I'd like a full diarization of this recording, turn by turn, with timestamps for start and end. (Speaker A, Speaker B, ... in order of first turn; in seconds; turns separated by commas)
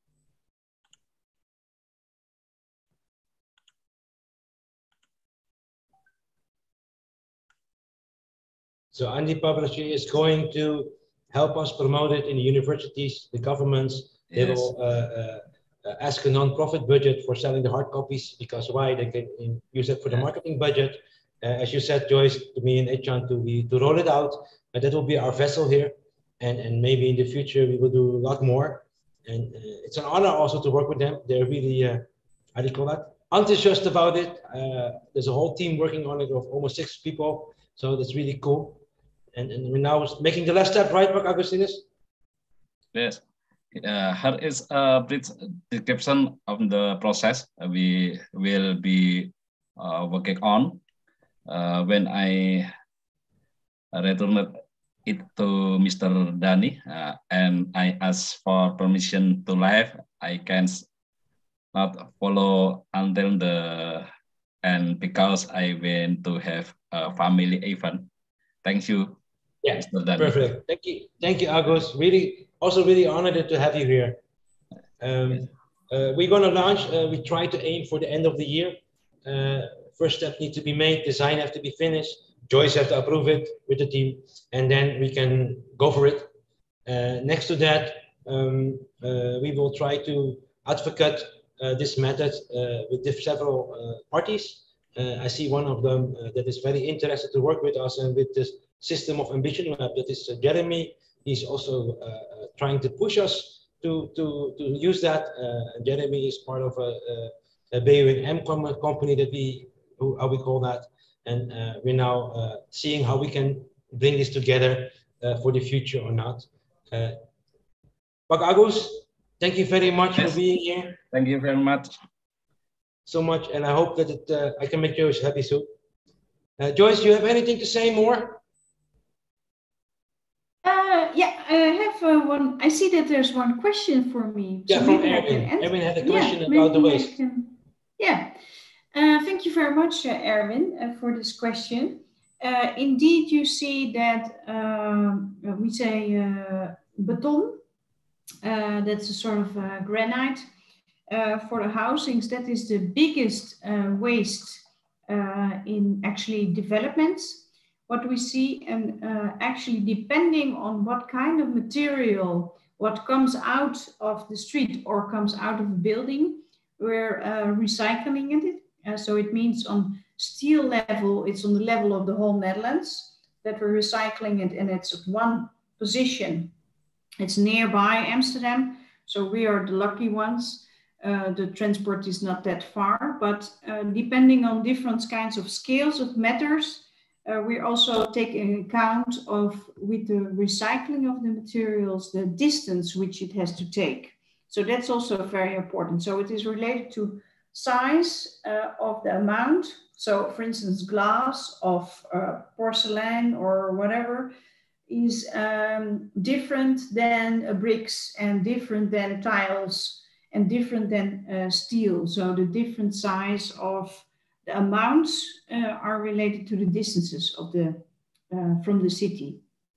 Speaker A: 8.9-38.8, Speaker B: 14.3-14.7, Speaker A: 39.4-41.9, Speaker B: 42.9-50.8, Speaker B: 51.5-52.7, Speaker B: 53.9-60.9, Speaker B: 61.7-64.1, Speaker B: 64.6-68.1, Speaker B: 68.6-69.2, Speaker A: 69.6-74.2, Speaker B: 69.8-70.5, Speaker A: 75.0-86.3, Speaker A: 86.9-117.2, Speaker A: 118.3-121.0, Speaker B: 121.1-121.9, Speaker A: 123.1-125.7, Speaker A: 126.6-128.4, Speaker C: 130.6-138.3, Speaker A: 134.7-137.1, Speaker C: 138.9-147.6, Speaker C: 148.4-150.4, Speaker C: 151.1-176.5, Speaker C: 177.2-204.3, Speaker C: 204.9-219.4